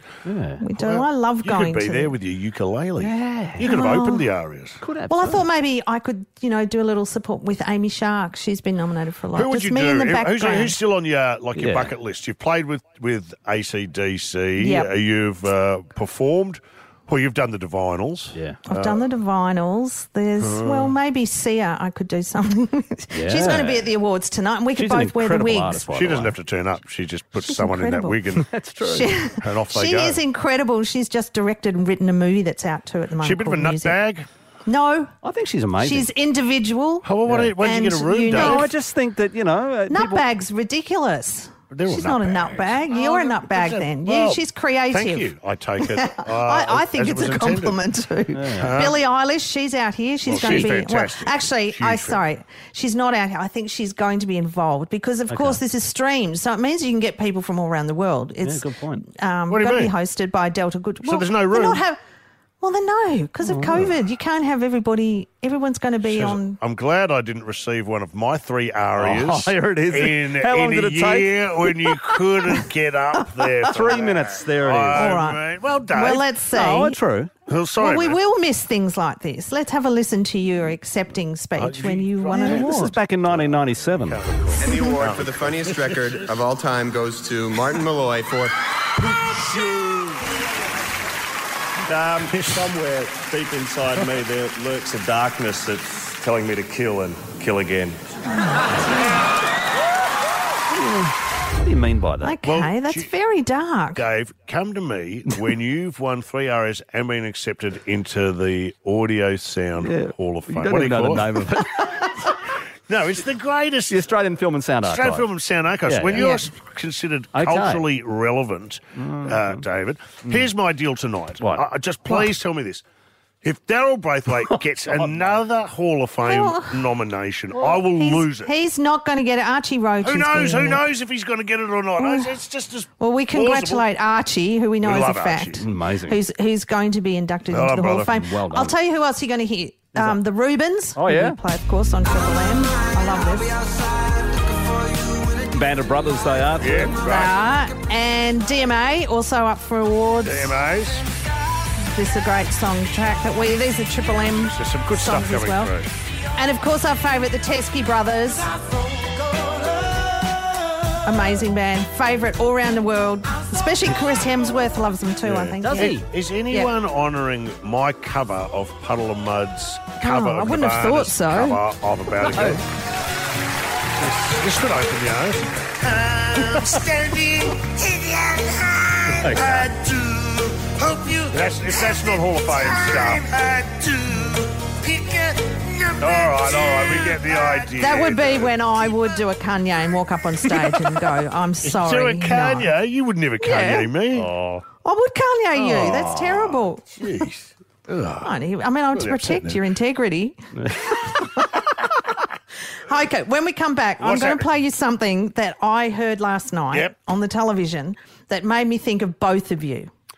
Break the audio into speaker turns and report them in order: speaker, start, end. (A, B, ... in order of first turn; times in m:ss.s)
0:00.2-0:00.6 A
0:00.6-0:02.1 B
0:00.8-0:04.8 C
0:03.0-0:03.9 A
0:03.6-0:04.3 B
0:04.8-0:05.4 A
0:05.1-0:10.7 B
0:09.3-0:19.0 C
0:11.5-0:11.9 A
0:14.6-0:14.9 B
0:18.3-0:18.6 A
0:18.7-0:25.9 B
0:20.4-0:20.9 C
0:23.1-0:23.9 A
0:24.7-0:26.3 A
0:25.9-0:28.5 C
0:27.4-0:28.2 B
0:28.4-0:29.1 A
0:28.8-0:34.0 B
0:29.4-0:30.2 C
0:33.2-0:34.3 C
0:34.7-0:35.1 B
0:35.2-0:36.1 A
0:35.8-0:37.0 B
0:37.0-0:38.7 C
0:37.2-0:37.5 A
0:37.6-0:38.7 B
0:38.3-0:40.2 A
0:39.9-0:45.3 B
0:41.7-0:47.8 C
0:45.8-1:02.0 B
0:48.3-0:48.7 A
0:48.6-0:49.0 C
0:50.2-0:52.2 C
0:50.3-0:50.7 A
0:55.3-0:55.6 A
0:58.4-0:59.0 A
0:59.5-0:59.9 C
1:01.0-1:01.8 C
1:02.6-1:06.6 B
1:03.4-1:03.8 A
1:06.0-1:16.2 C
1:09.0-1:11.4 A
1:13.6-1:15.2 A
1:14.9-1:17.0 B
1:16.5-1:17.3 A
1:17.5-1:18.2 C
1:17.8-1:23.0 B
1:21.6-1:26.1 C
1:22.3-1:24.2 A
1:24.6-1:28.5 D
1:29.0-1:30.2 C
1:31.8-1:38.0 E
1:32.3-1:32.6 C
1:40.7-1:42.4 A
1:42.2-1:44.0 B
1:42.4-1:43.1 C
1:44.0-1:51.4 C
1:49.8-1:52.2 A
1:52.9-1:54.2 C
1:53.9-1:55.3 A
1:54.8-2:02.8 C
1:55.9-1:56.4 A
1:56.1-1:56.4 B
1:57.3-1:57.9 A
1:59.0-1:59.6 A
2:03.4-2:08.5 C
2:04.4-2:05.4 A
2:06.2-2:06.8 B
2:07.5-2:10.8 B
2:10.0-2:13.9 C
2:12.0-2:12.3 B
2:13.0-2:23.6 B
2:14.8-2:15.6 C
2:15.6-2:16.2 A
2:17.5-2:18.2 C
2:18.2-2:18.7 A
2:21.0-2:21.4 A
2:25.4-2:26.9 A
2:26.6-2:27.4 C
2:27.0-2:30.5 B
2:30.2-2:31.1 C
2:31.9-2:35.7 B
2:34.5-2:35.9 C
2:36.3-2:38.5 B
2:41.0-2:46.0 B
2:45.2-2:52.6 C
2:45.6-2:46.0 A
2:50.0-2:51.6 B
2:52.2-2:52.6 B
2:54.0-3:08.6 C
2:59.2-2:59.7 A
3:07.8-3:12.7 B
3:11.6-3:14.3 C
3:13.4-3:13.9 B
3:14.1-3:14.6 A
3:14.8-3:17.2 B
3:15.5-3:16.5 A
3:17.0-3:18.3 C
3:18.2-3:21.4 B
3:18.9-3:19.6 C
3:20.6-3:20.8 A
3:22.9-3:29.9 B
3:24.0-3:24.4 C